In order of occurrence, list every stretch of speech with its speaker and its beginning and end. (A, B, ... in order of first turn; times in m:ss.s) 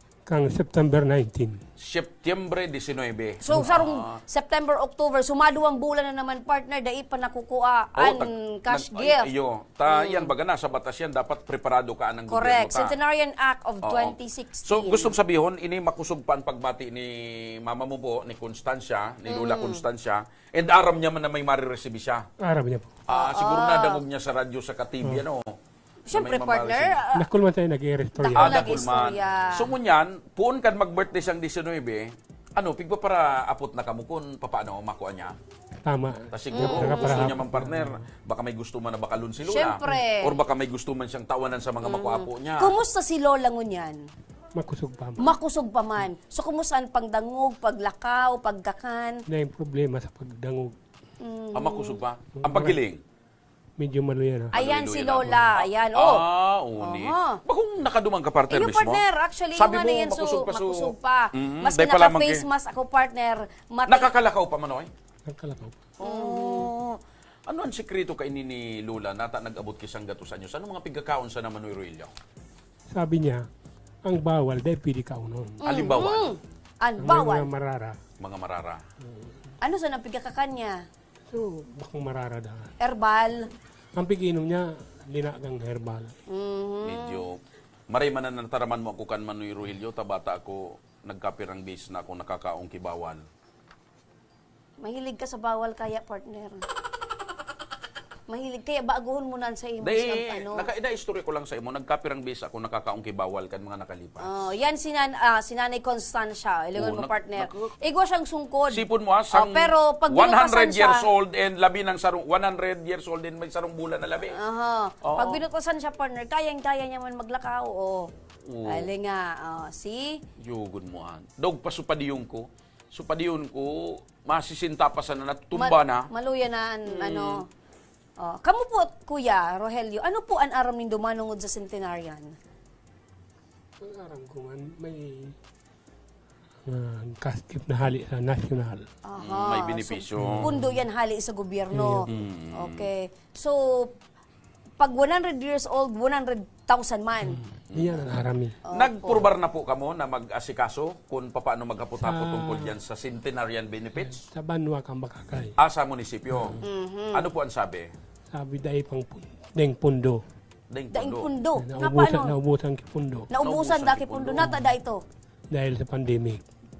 0:00.3-0:01.6 A
0:01.8-0:04.2 B
0:03.4-0:09.2 C
0:08.0-0:12.9 B
0:09.9-0:10.3 C
0:12.3-0:15.1 C
0:13.8-0:14.1 B
0:14.6-0:22.2 B
0:19.3-0:19.8 C
0:22.4-0:22.9 A
0:23.1-0:25.5 B
0:23.1-0:24.0 C
0:26.1-0:27.1 C
0:26.1-0:27.0 B
0:27.2-0:29.2 A
0:28.2-0:29.6 C
0:28.4-0:35.4 B
0:35.8-0:38.0 A
0:36.3-0:42.7 B
0:36.6-0:37.3 C
0:39.5-0:40.3 C
0:41.9-0:44.0 C
0:44.6-0:45.2 A
0:45.2-0:49.1 C
0:49.3-0:50.7 A
0:51.2-0:51.9 C
0:51.5-0:53.0 B
0:52.4-0:52.8 A
0:53.8-0:54.5 A
0:54.5-0:56.2 C
0:54.6-0:59.0 B
0:56.8-0:57.4 C
0:58.5-1:04.1 C
0:59.6-1:02.4 B
1:03.9-1:04.9 B
1:05.3-1:05.8 A
1:06.0-1:12.1 B
1:06.0-1:06.7 C
1:12.9-1:13.4 A
1:14.0-1:15.6 A
1:15.6-1:17.5 C
1:15.6-1:16.3 B
1:17.0-1:18.0 A
1:18.2-1:18.8 B
1:19.0-1:19.5 A
1:19.6-1:20.8 C
1:21.3-1:22.7 A
1:22.8-1:23.4 C
1:24.0-1:26.1 A
1:26.3-1:27.2 C
1:26.8-1:27.4 B
1:27.9-1:33.2 B
1:34.8-1:36.6 C
1:38.3-1:40.6 C
1:39.8-1:44.2 B
1:44.2-1:48.8 C
1:46.8-1:47.7 B
1:48.7-1:54.3 B
1:49.3-1:51.0 C
1:54.3-1:58.1 C
1:55.0-1:55.4 B
1:58.5-1:58.9 B
1:58.7-2:00.1 C
2:00.4-2:06.1 B
2:05.6-2:07.4 C
2:06.9-2:07.4 B
2:08.2-2:12.3 C
2:13.8-2:15.4 A
2:16.6-2:18.8 A
2:19.1-2:23.9 C
2:19.2-2:20.5 B
2:20.2-2:20.8 A
2:21.7-2:22.1 A
2:22.1-2:22.8 B
2:24.8-2:27.4 C
2:27.2-2:28.6 A
2:27.7-2:28.1 B
2:28.7-2:29.2 C
2:28.7-2:34.2 B
2:32.0-2:32.7 A
2:34.0-2:35.6 A
2:35.6-2:36.6 B
2:36.3-2:36.6 A
2:36.6-2:37.2 C
2:37.1-2:37.9 B
2:38.3-2:40.2 A
2:40.7-2:41.3 B
2:40.9-2:42.3 C
2:41.6-2:43.3 A
2:43.3-2:45.0 C
2:43.4-2:44.5 B
2:44.4-2:44.7 A
2:45.5-2:46.4 A